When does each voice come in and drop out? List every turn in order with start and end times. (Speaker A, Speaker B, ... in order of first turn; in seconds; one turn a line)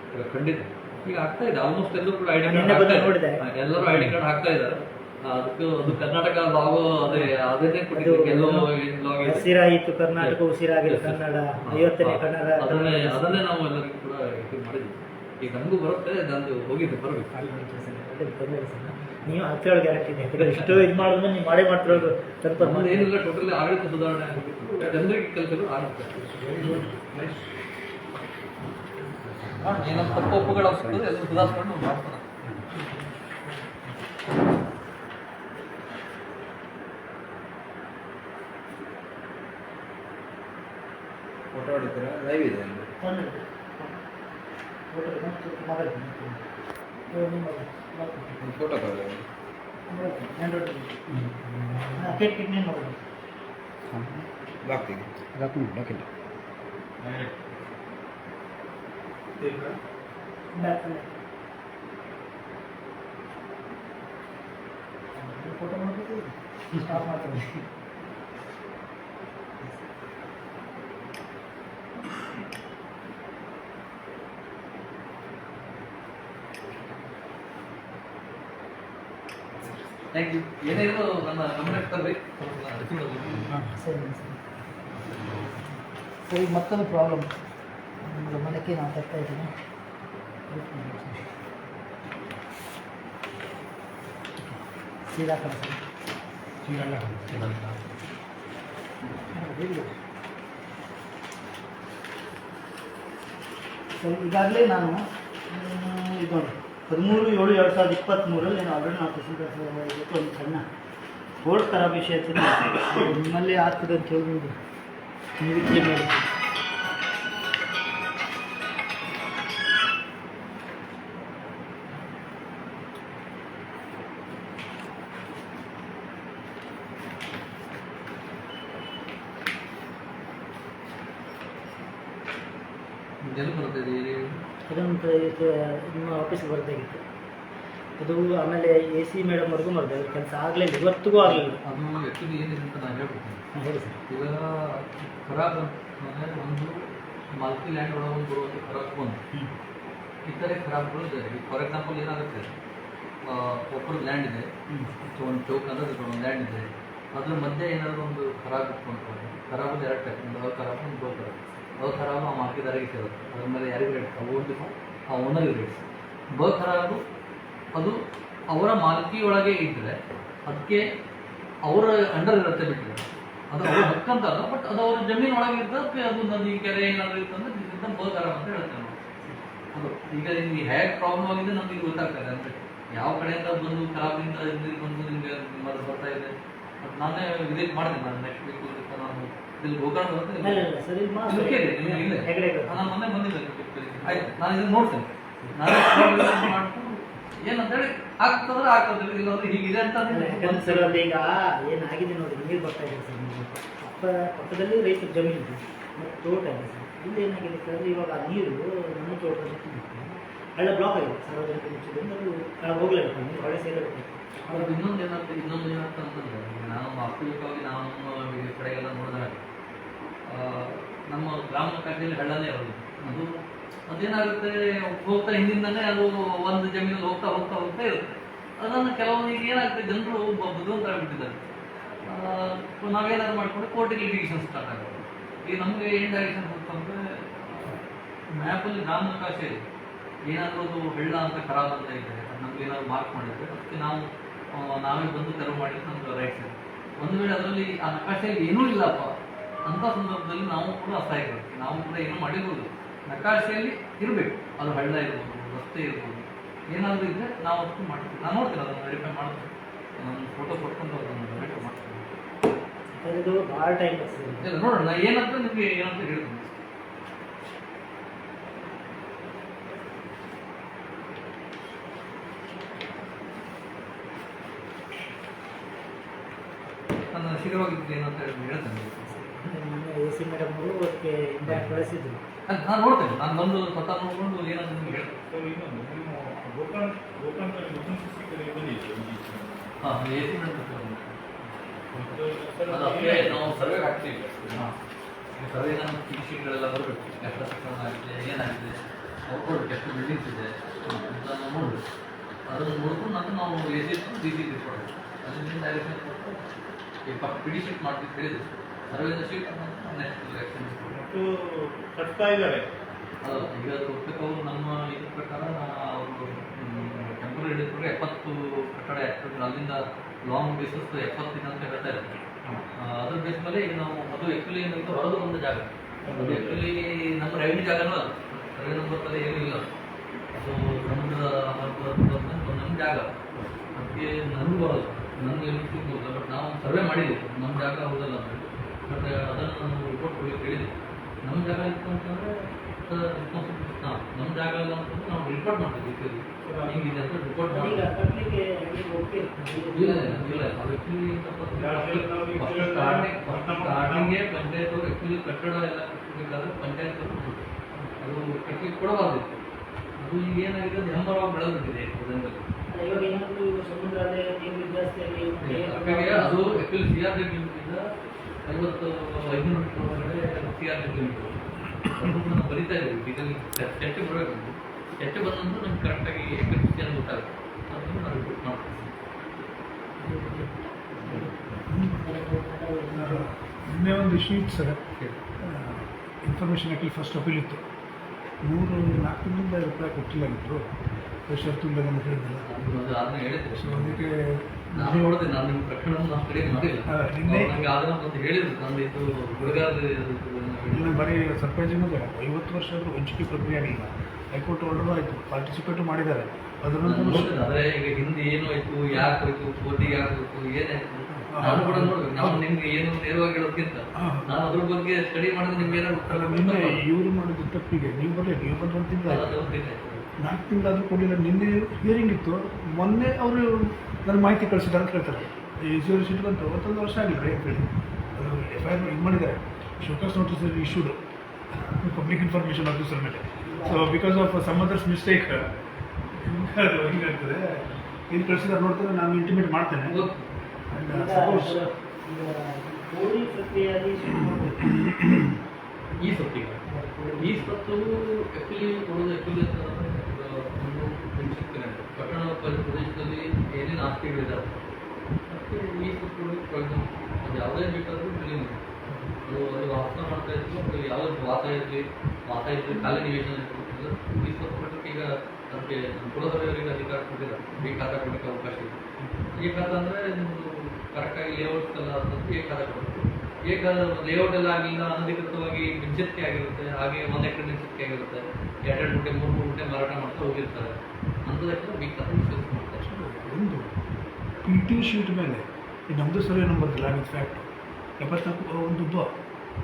Speaker A: 0.1-9.5
Speaker B: 2.5-4.2
Speaker B: 7.0-7.3
Speaker B: 7.9-8.7
Speaker B: 9.2-13.4
Speaker A: 10.2-17.4
Speaker B: 17.3-23.1
Speaker A: 20.4-20.9
Speaker A: 22.6-26.9
Speaker C: 26.6-27.2
Speaker A: 29.5-32.3
Speaker D: 29.7-31.0
Speaker D: 41.5-42.9
Speaker B: 43.0-44.0
Speaker B: 44.9-46.4
Speaker B: 47.1-48.4
Speaker D: 48.4-49.3
Speaker B: 49.9-51.0
Speaker D: 51.3-51.8
Speaker C: 51.4-52.0
Speaker B: 52.0-53.0
Speaker D: 53.9-56.0
Speaker E: 57.0-57.3
Speaker E: 59.4-59.8
Speaker B: 60.5-61.1
Speaker B: 65.2-67.6
Speaker A: 80.1-83.6
Speaker B: 83.5-84.4
Speaker B: 86.3-87.3
Speaker B: 88.0-89.5
Speaker B: 90.5-91.3
Speaker B: 95.1-95.8
Speaker C: 96.6-97.3
Speaker A: 97.3-98.0
Speaker B: 99.3-99.9
Speaker B: 104.0-110.6
Speaker B: 111.4-114.5
Speaker B: 115.4-116.2
Speaker A: 133.2-134.3
Speaker B: 134.7-137.0
Speaker B: 138.0-141.6
Speaker A: 141.2-143.4
Speaker B: 143.6-144.0
Speaker A: 144.1-146.8
Speaker A: 147.3-149.2
Speaker A: 150.2-152.5
Speaker A: 153.2-154.5
Speaker A: 155.0-167.0
Speaker A: 168.5-170.8
Speaker A: 171.7-179.0
Speaker A: 179.7-190.7
Speaker B: 190.4-192.9
Speaker A: 191.3-201.0
Speaker B: 194.0-194.3
Speaker B: 195.4-195.8
Speaker B: 200.1-214.8
Speaker A: 214.5-219.4
Speaker A: 220.3-223.3
Speaker A: 223.9-231.4
Speaker A: 232.1-239.7
Speaker A: 240.3-249.1
Speaker A: 249.7-262.1
Speaker B: 261.4-261.7
Speaker B: 262.9-264.5
Speaker A: 264.4-266.6
Speaker A: 277.1-279.2
Speaker B: 279.2-282.2
Speaker A: 281.5-281.7
Speaker A: 282.5-285.1
Speaker E: 284.9-289.8
Speaker A: 289.8-291.2
Speaker E: 292.1-293.8
Speaker A: 292.7-294.8
Speaker A: 295.4-301.8
Speaker A: 302.5-306.4
Speaker A: 307.1-310.9
Speaker E: 310.9-312.7
Speaker A: 313.2-322.2
Speaker A: 322.8-329.7
Speaker E: 326.1-326.6
Speaker A: 330.3-333.1
Speaker A: 333.8-347.9
Speaker E: 346.4-346.8
Speaker B: 347.5-350.5
Speaker A: 349.4-357.4
Speaker E: 351.6-354.2
Speaker A: 358.0-359.4
Speaker A: 360.0-362.5
Speaker B: 362.7-366.6
Speaker A: 365.4-367.8
Speaker A: 368.4-378.9
Speaker B: 380.0-383.3
Speaker C: 381.7-382.1
Speaker C: 382.9-384.8
Speaker C: 385.4-387.6
Speaker C: 388.4-390.7
Speaker C: 391.3-392.5
Speaker A: 392.5-394.0
Speaker C: 393.6-395.2
Speaker A: 394.8-401.1
Speaker C: 396.9-397.6
Speaker C: 399.4-399.7
Speaker C: 400.7-407.3
Speaker A: 406.8-416.8
Speaker C: 411.1-412.4
Speaker C: 414.0-414.4
Speaker C: 416.1-419.4
Speaker A: 419.1-420.1
Speaker C: 420.2-431.0
Speaker C: 431.5-435.5
Speaker B: 433.5-433.9
Speaker C: 436.1-440.1
Speaker A: 439.9-440.3
Speaker C: 440.7-441.6
Speaker B: 440.9-444.7
Speaker C: 444.6-445.3
Speaker A: 446.0-446.6
Speaker B: 446.7-447.5
Speaker A: 447.2-454.6
Speaker A: 455.3-458.7
Speaker A: 459.2-468.8
Speaker C: 469.0-469.3
Speaker A: 469.3-482.9
Speaker C: 482.8-483.7
Speaker C: 484.4-487.5
Speaker C: 488.0-489.1